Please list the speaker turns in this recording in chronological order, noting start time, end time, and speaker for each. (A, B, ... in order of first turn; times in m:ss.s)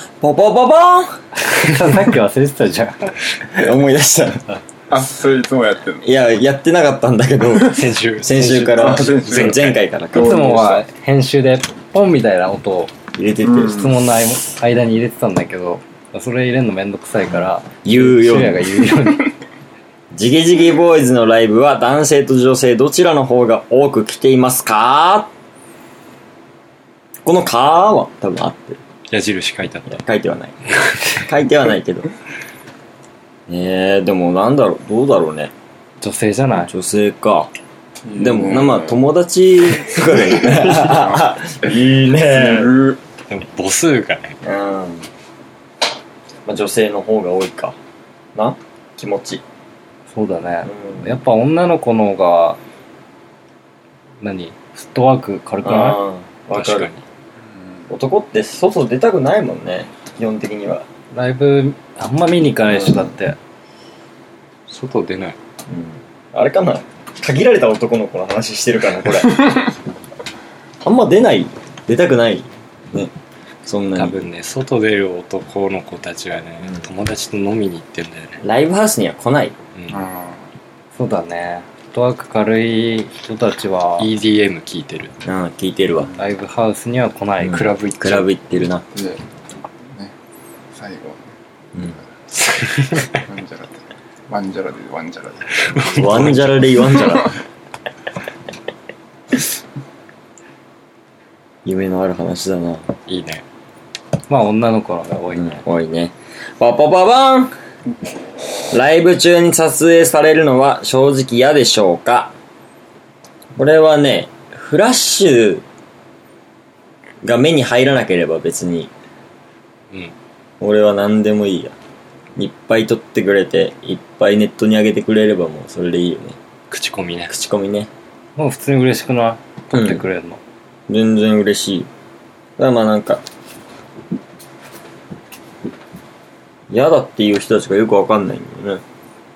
0:00.2-0:01.2 A
0:01.4-0:03.6 B
0:03.6-0:04.4 A
0:04.9-0:06.1 C
0:06.0-0:10.6 A
0:07.5-0:07.8 C
0:07.7-0:09.8 D
0:08.7-0:10.8 C
0:10.1-0:12.9 B
0:13.1-0:13.9 A
0:13.4-0:14.0 C
0:13.6-0:19.3 B
0:17.8-0:18.8 A
0:20.1-0:25.3 A
0:27.2-0:28.8 A
0:29.1-0:30.0 D
0:29.9-0:30.5 A
0:30.7-0:31.2 D
0:31.2-0:32.1 A
0:33.5-0:35.5 A
0:36.0-0:36.7 B
0:36.7-0:37.5 A
0:38.0-0:39.0 C
0:38.2-0:42.7 A
0:40.1-0:43.0 C
0:43.3-0:44.4 D
0:44.4-0:45.1 A
0:46.4-0:47.8 A
0:48.3-0:49.4 A
0:50.1-0:52.6 B
0:50.6-0:51.1 A
0:54.2-0:56.0 B
0:55.6-0:56.9 A
0:56.5-0:57.0 D
0:57.9-1:00.8 A
1:01.1-1:03.4 B
1:02.7-1:03.1 A
1:04.7-1:05.4 D
1:05.7-1:09.6 A
1:10.8-1:13.1 A
1:13.6-1:14.2 A
1:14.0-1:18.4 D
1:18.4-1:19.6 A
1:19.7-1:20.0 D
1:19.9-1:20.4 C
1:20.9-1:24.1 B
1:24.0-1:25.1 D
1:25.2-1:26.1 A
1:26.2-1:28.0 B
1:27.4-1:28.8 A
1:27.5-1:28.3 D
1:28.9-1:29.2 C
1:30.7-1:31.3 C
1:32.3-1:33.2 D
1:33.1-1:36.1 C
1:35.6-1:36.7 D
1:35.9-1:37.3 A
1:36.9-1:37.2 C
1:41.6-1:42.9 A
1:43.1-1:43.4 D
1:44.3-1:45.6 B
1:45.3-1:47.5 A
1:48.7-1:52.3 A
1:53.6-1:55.6 A
1:57.2-1:58.9 A
2:00.6-2:01.7 A
2:02.4-2:06.4 A
2:06.7-2:07.3 D
2:07.3-2:07.9 A
2:08.4-2:10.4 B
2:09.7-2:10.0 A
2:10.9-2:11.9 A
2:12.6-2:13.2 A
2:16.7-2:18.8 A